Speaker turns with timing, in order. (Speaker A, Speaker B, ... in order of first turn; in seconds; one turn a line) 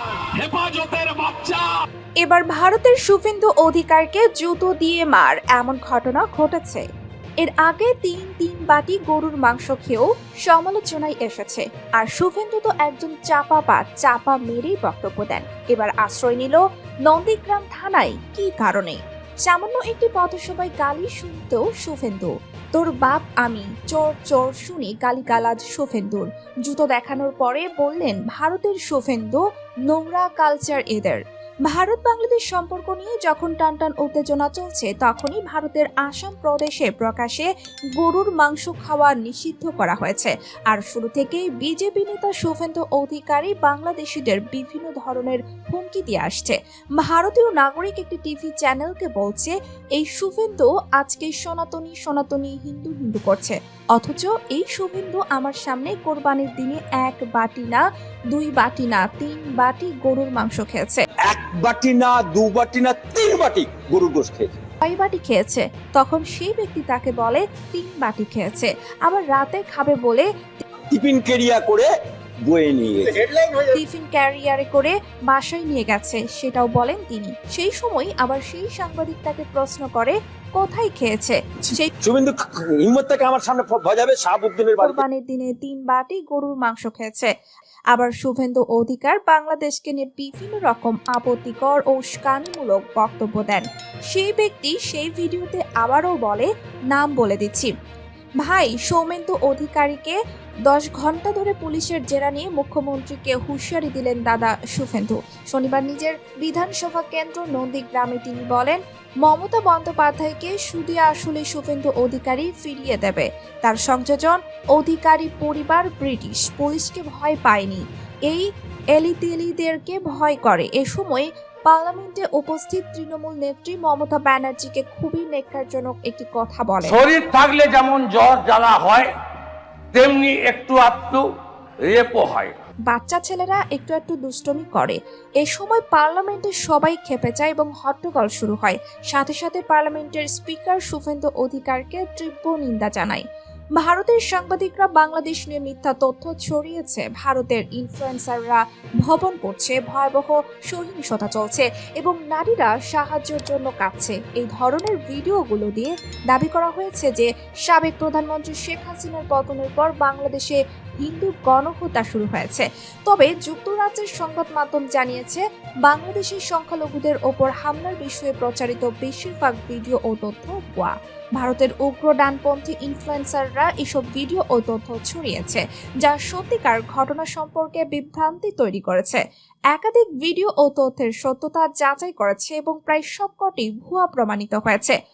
Speaker A: 0.3-1.7
Speaker B: 2.2-6.8
Speaker B: 7.4-61.1
Speaker C: 61.2-64.5
Speaker B: 64.8-70.3
Speaker C: 70.9-71.9
Speaker C: 72.4-73.5
Speaker B: 73.7-81.9
Speaker C: 82.0-85.0
Speaker B: 84.8-87.3
Speaker B: 87.9-97.7
Speaker B: 98.4-127.0
Speaker A: 126.8-129.1
Speaker A: 129.9-131.2
Speaker A: 131.8-132.5
Speaker B: 132.9-143.2
Speaker B: 143.8-184.9